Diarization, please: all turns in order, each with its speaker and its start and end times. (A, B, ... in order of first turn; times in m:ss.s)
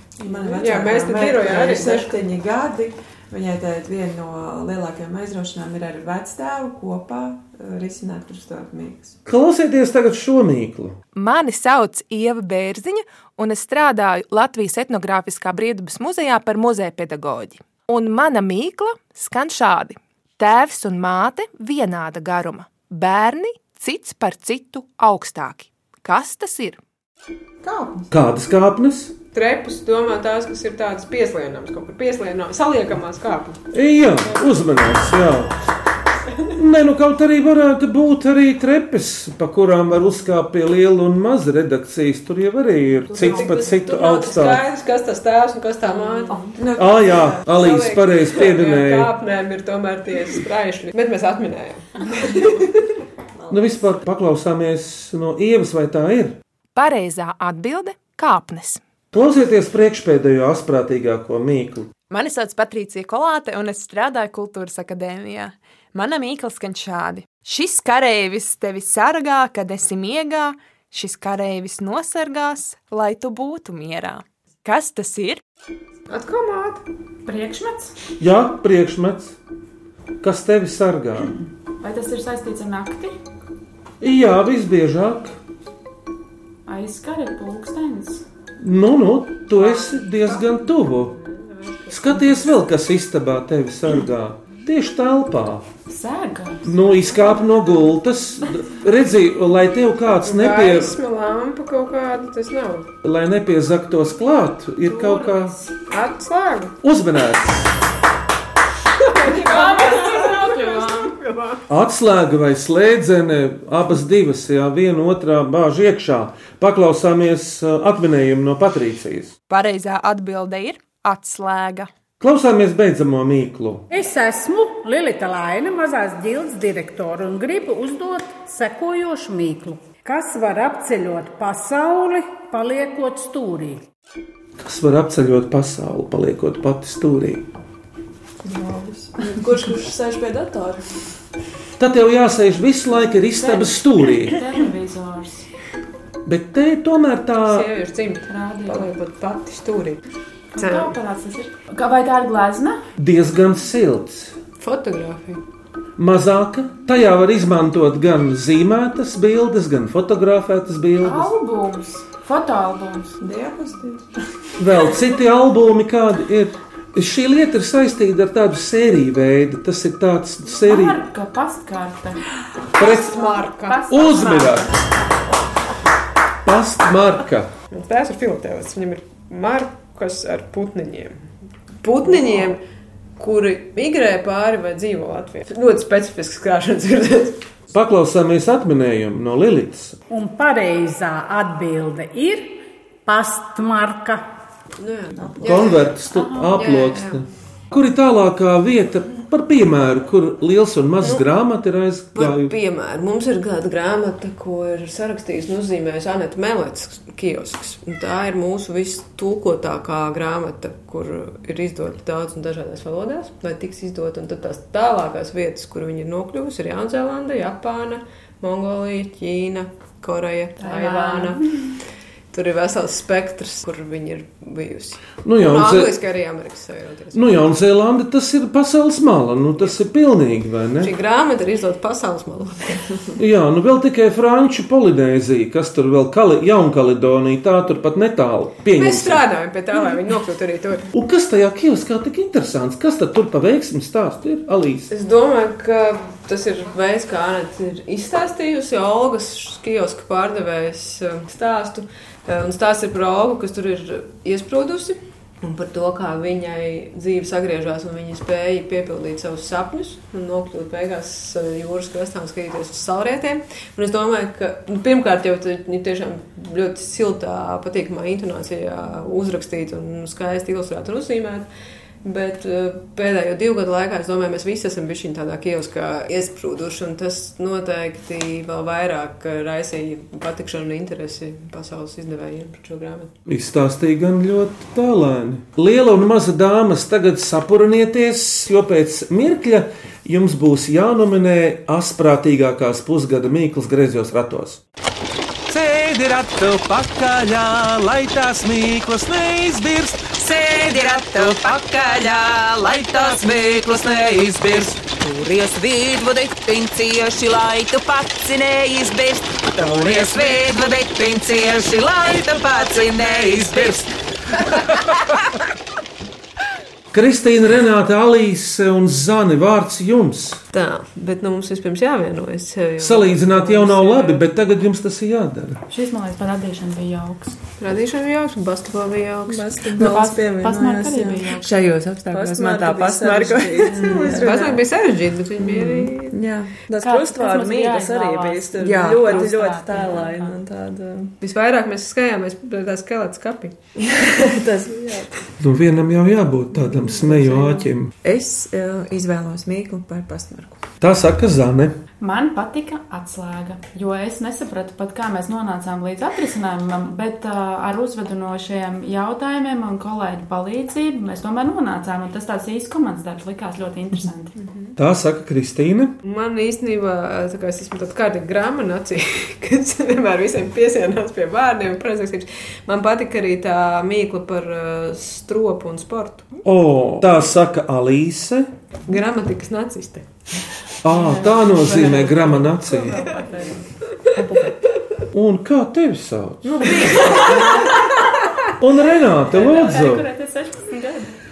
0:00.2-0:09.2 A
0:00.5-0:02.2 B
0:09.2-0:11.0 C
0:11.1-0:26.8 D
0:27.6-0:28.1 A
0:28.1-0:29.1 C
0:29.3-0:33.6 B
0:33.7-0:35.5 C
0:36.3-0:36.5 B
0:36.6-0:44.6 C
0:43.1-0:46.6 B
0:46.6-0:47.4 A
0:46.8-0:49.1 C
0:47.4-0:52.9 B
0:53.5-0:56.4 C
0:56.7-0:58.8 D
0:59.1-1:01.9 C
1:02.1-1:15.4 D
1:16.1-1:16.8 B
1:17.2-1:17.9 E
1:18.2-1:19.3 C
1:20.2-1:21.3 C
1:21.8-1:23.1 E
1:24.0-1:25.4 C
1:26.7-1:28.2 E
1:28.6-1:31.1 C
1:31.0-1:32.2 B
1:31.9-1:35.6 C
1:35.9-1:36.8 E
1:36.6-1:41.0 C
1:40.2-1:42.9 B
1:43.0-1:45.6 C
1:44.8-1:45.7 E
1:45.9-1:46.7 B
1:46.8-1:47.7 C
1:49.0-1:51.6 B
1:49.2-1:51.1 E
1:51.7-1:59.3 C
1:59.5-2:01.9 D
2:02.2-2:03.8 C
2:03.9-2:13.8 F
2:14.6-2:17.5 C
2:18.4-2:19.1 A
2:19.2-2:20.9 G
2:21.8-2:24.3 C
2:23.4-2:25.5 E
2:26.2-2:27.7 C
2:27.4-2:30.0 B
2:28.2-2:28.9 E
2:30.5-2:32.8 E
2:30.6-2:30.9 B
2:33.0-2:34.3 C
2:34.6-2:35.4 B
2:36.0-2:41.3 C
2:41.0-2:43.1 E
2:43.2-2:44.1 A
2:44.6-2:51.0 C
2:50.5-2:52.2 E
2:52.8-2:53.9 B
2:52.8-2:53.3 C
2:52.8-2:54.7 E
2:53.9-2:54.7 C
2:56.4-2:57.5 C
2:57.7-3:01.1 B
3:01.8-3:02.6 B
3:03.2-3:07.4 B
3:07.7-3:10.0 C
3:10.1-3:14.2 F
3:14.8-3:17.2 B
3:15.4-3:22.5 C
3:22.1-3:41.5 B
3:40.6-3:41.7 E
3:42.3-3:47.5 B
3:45.2-3:45.9 C
3:47.1-3:50.9 C
3:50.8-3:53.0 B
3:53.2-3:59.2 C
3:58.7-4:00.9 B
4:00.9-4:04.9 C
4:04.9-4:31.5 B
4:32.0-4:43.1 B
4:43.2-4:54.6 C
4:55.5-5:01.9 H
5:00.2-5:13.9 I
5:02.7-5:03.6 H
5:04.2-5:04.8 H
5:09.7-5:10.2 H
5:13.2-5:13.8 H
5:16.9-5:20.4 C
5:20.5-5:24.2 B
5:22.8-5:25.6 C
5:25.7-5:27.4 E
5:27.6-5:29.5 B
5:29.3-5:31.1 G
5:29.8-5:31.4 E
5:29.8-5:34.6 A
5:32.0-5:34.6 G
5:33.7-5:36.2 B
5:35.5-5:36.5 A
5:36.7-5:41.1 G
5:36.8-5:40.4 E
5:38.6-5:39.2 A
5:41.2-5:43.5 B
5:43.8-5:45.2 G
5:45.4-5:47.9 C
5:46.6-5:50.6 A
5:50.8-5:51.7 C
5:52.0-6:04.3 E
6:04.8-6:05.9 C
6:06.0-6:16.3 B
6:16.4-6:18.5 C
6:18.9-6:20.1 B
6:20.8-6:23.0 C
6:20.9-6:23.6 E
6:25.1-6:26.9 C
6:26.7-6:27.4 B
6:28.6-6:30.1 C
6:29.2-6:31.1 E